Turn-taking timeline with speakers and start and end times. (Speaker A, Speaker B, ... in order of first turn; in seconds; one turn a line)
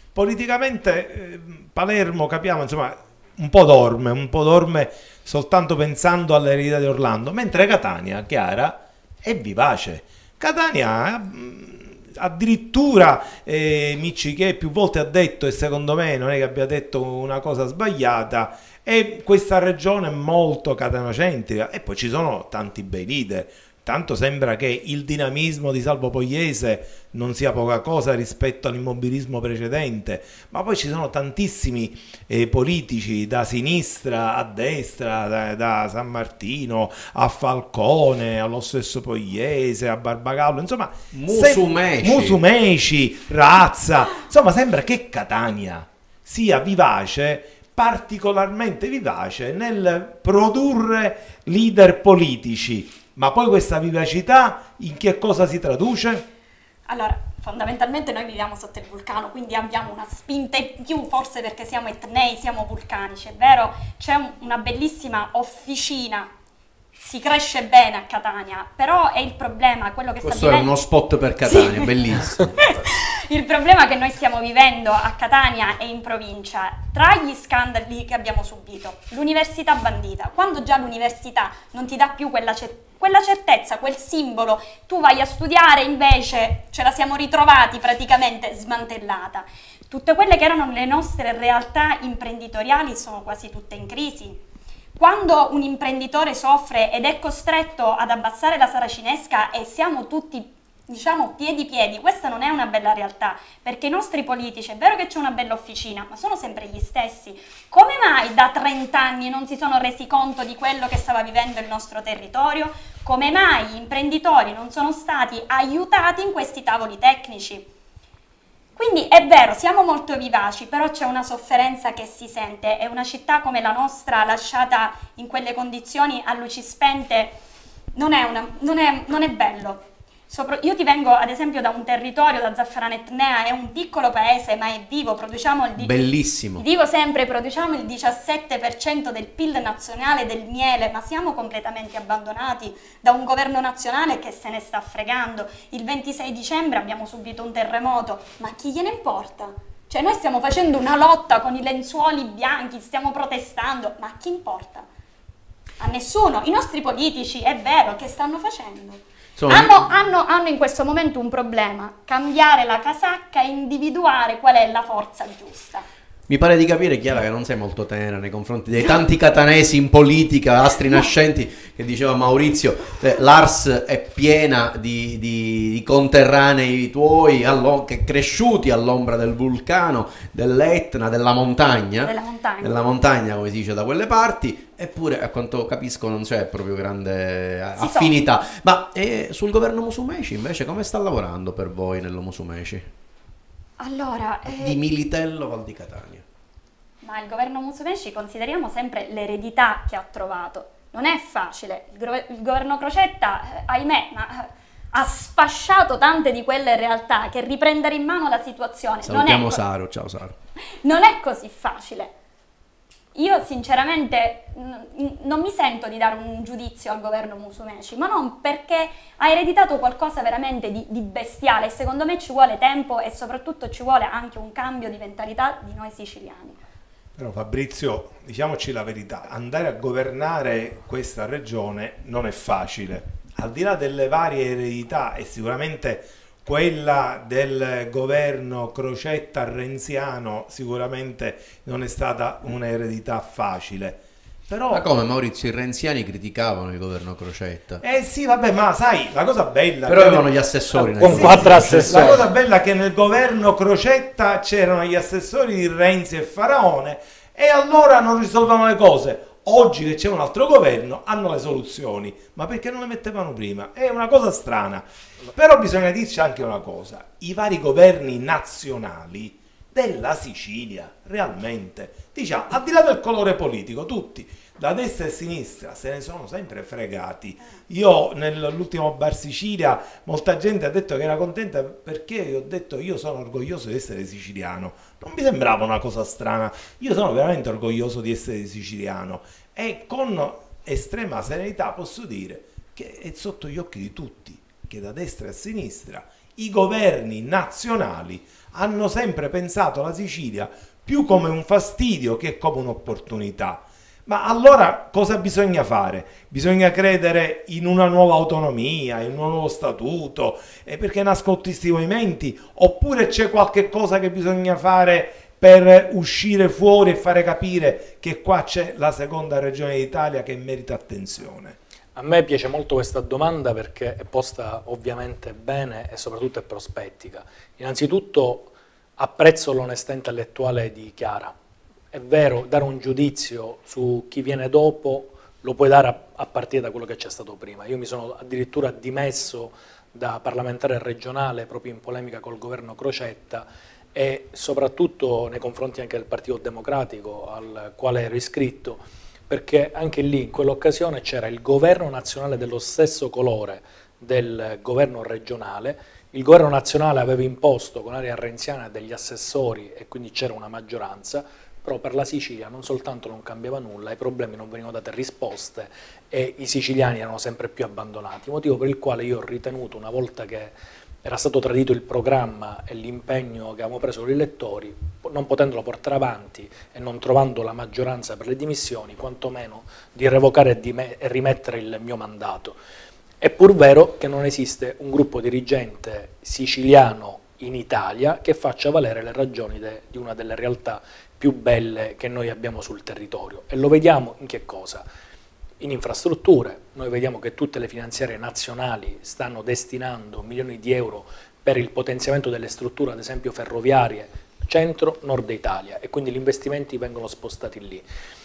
Speaker A: 0.1-56.2
Speaker B: 41.1-42.4
Speaker C: 56.9-66.3
Speaker C: 67.0-70.7
Speaker B: 70.2-72.8
Speaker C: 71.5-71.9
Speaker C: 72.6-94.4
Speaker C: 95.0-117.7
Speaker C: 118.8-127.4
Speaker C: 128.0-136.0
Speaker B: 135.8-136.7
Speaker C: 136.6-154.9
Speaker C: 155.8-165.9
Speaker B: 159.4-159.9
Speaker B: 166.3-192.9
Speaker C: 182.0-182.9
Speaker C: 187.8-188.1
Speaker C: 193.8-194.8
Speaker B: 194.5-196.2
Speaker C: 197.0-209.6
Speaker B: 209.0-210.4
Speaker C: 210.8-212.1
Speaker C: 213.2-226.6
Speaker A: 227.2-244.8
Speaker B: 244.7-247.8
Speaker A: 247.8-250.3
Speaker B: 249.9-252.2
Speaker D: 250.9-252.2
Speaker A: 251.0-321.6
Speaker D: 322.0-331.4
Speaker D: 331.9-382.6
Speaker D: 383.2-394.9
Speaker D: 395.6-407.8